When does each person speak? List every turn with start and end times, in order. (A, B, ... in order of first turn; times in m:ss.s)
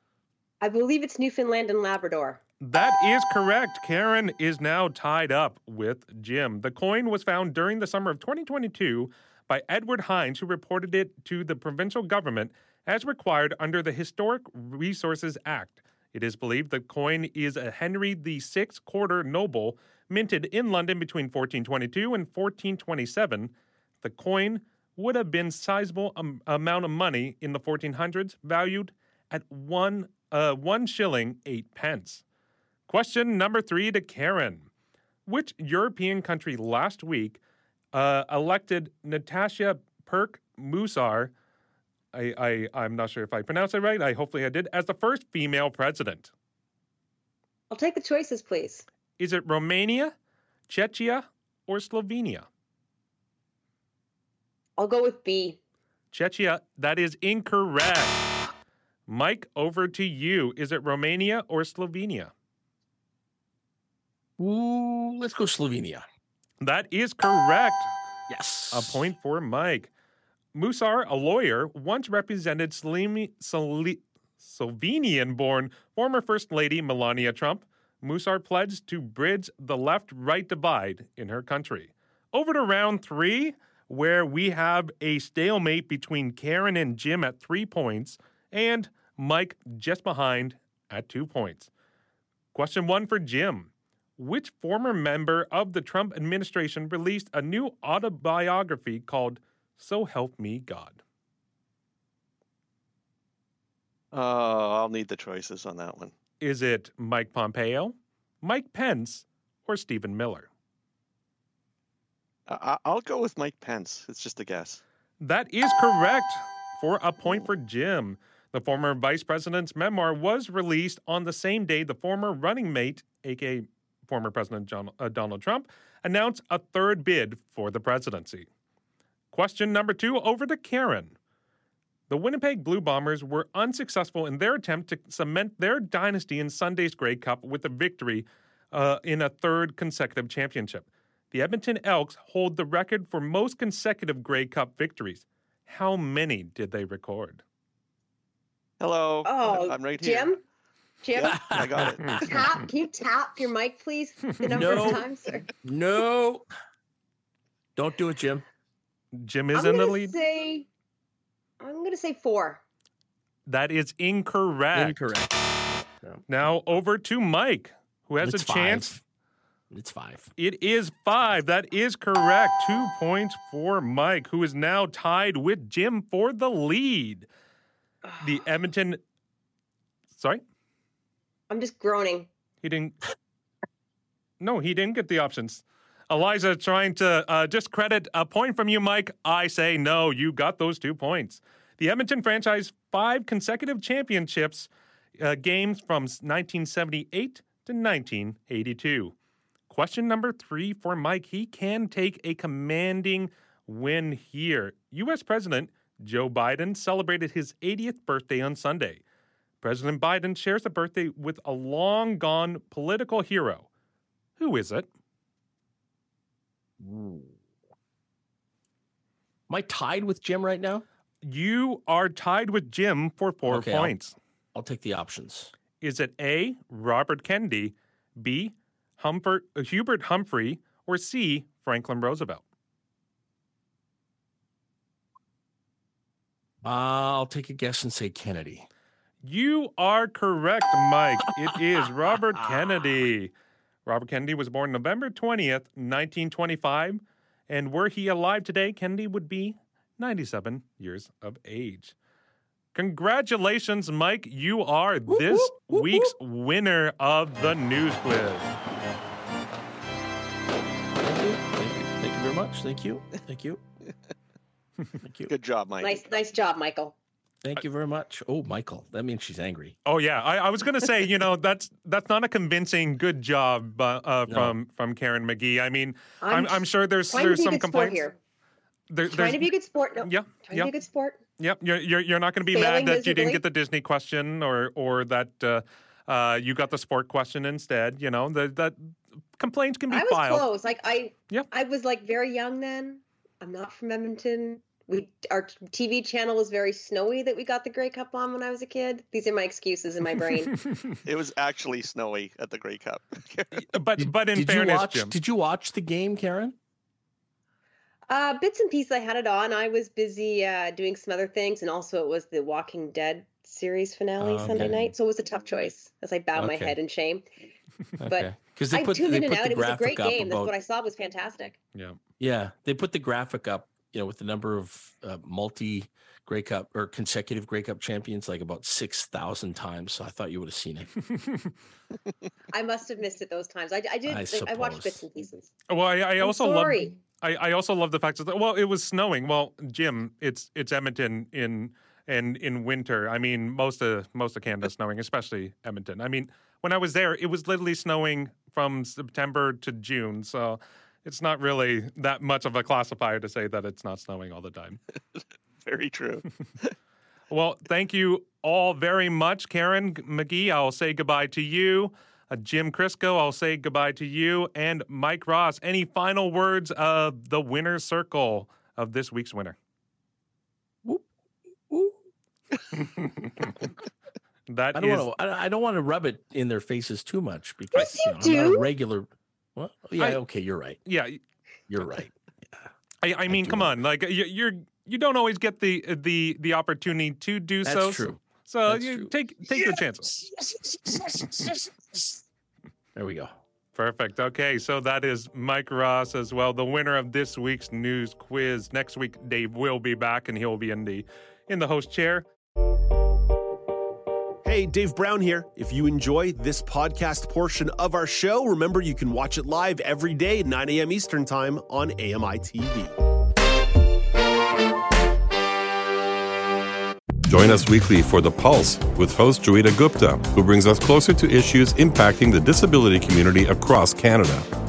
0:00.6-0:02.4 A
0:02.6-0:32.2 B
0:32.9-0:34.7 B
0:35.2-0:37.4 B
0:37.9-0:41.3 B
0:42.1-0:46.3 B
0:47.7-0:48.8 A
0:49.2-0:50.1 B
0:50.7-0:52.5 B
0:54.8-0:55.6 A
0:56.1-0:58.2 B
0:59.1-1:02.3 B
1:04.4-1:06.0 C
1:06.6-1:07.9 B
1:08.3-1:09.1 C
1:08.7-1:09.9 B
1:10.5-1:31.7 B
1:32.5-1:41.0 B
1:44.1-1:46.1 D
1:46.4-1:50.5 B
1:52.5-1:54.8 D
1:55.2-2:08.5 B
2:09.3-2:11.1 B
2:12.1-2:27.4 B
2:28.8-2:30.4 D
2:29.2-2:30.4 A
2:31.0-2:31.4 A
2:31.1-2:32.4 D
2:31.2-2:32.2 C
2:32.3-2:35.5 A
2:34.5-2:35.1 C
2:34.6-2:34.9 B
2:35.6-2:36.4 C
2:37.8-2:38.4 C
2:39.1-2:40.2 B
2:39.5-2:40.7 A
2:41.6-2:42.6 A
2:43.4-2:45.0 B
2:44.7-2:46.4 C
2:46.3-2:49.0 B
2:48.2-2:49.0 C
2:49.7-2:50.3 C
2:50.4-2:57.3 B
2:58.2-2:59.0 B
3:00.1-3:00.4 B
3:01.5-3:02.3 A
3:02.6-3:03.0 B
3:04.4-3:19.1 B
3:19.7-3:29.0 B
3:29.6-3:33.6 B
3:34.4-3:34.9 B
3:36.8-3:37.3 C
3:39.5-3:40.8 C
3:41.2-3:44.2 B
3:43.4-3:43.9 C
3:44.5-3:45.5 C
3:45.8-3:52.4 B
3:56.6-3:58.7 C
3:59.2-4:03.3 B
4:03.8-4:11.9 B
4:12.7-4:18.5 B
4:15.1-4:16.1 C
4:21.0-4:23.6 C
4:25.0-4:25.3 C
4:25.3-4:26.1 D
4:25.8-4:26.9 A
4:27.4-4:29.8 C
4:29.8-4:38.1 B
4:34.3-4:34.6 C
4:36.2-4:38.2 A
4:38.9-4:39.5 B
4:39.1-4:41.2 A
4:40.0-4:40.7 B
4:41.4-4:50.5 B
4:42.5-4:43.4 A
4:49.9-5:00.5 A
5:01.0-5:03.6 D
5:03.5-5:05.2 B
5:04.0-5:06.6 C
5:08.1-5:17.3 A
5:14.2-5:14.9 C
5:16.3-5:16.8 C
5:18.0-5:20.5 C
5:18.1-5:21.6 A
5:22.2-5:30.9 C
5:31.1-5:31.5 B
5:32.5-5:35.5 A
5:34.0-5:35.0 C
5:35.7-5:54.8 B
5:36.2-5:37.0 A
5:55.1-5:56.7 D
5:57.3-6:09.6 B
6:11.7-6:11.9 C
6:14.5-6:15.1 B
6:14.7-6:20.8 C
6:17.7-6:18.7 A
6:20.8-6:21.2 B
6:21.7-6:22.6 C
6:23.0-6:30.1 B
6:23.3-6:23.7 C
6:27.6-6:32.2 C
6:33.0-6:33.3 C
6:33.7-6:42.2 B
6:44.4-6:52.9 E
6:57.3-7:04.5 F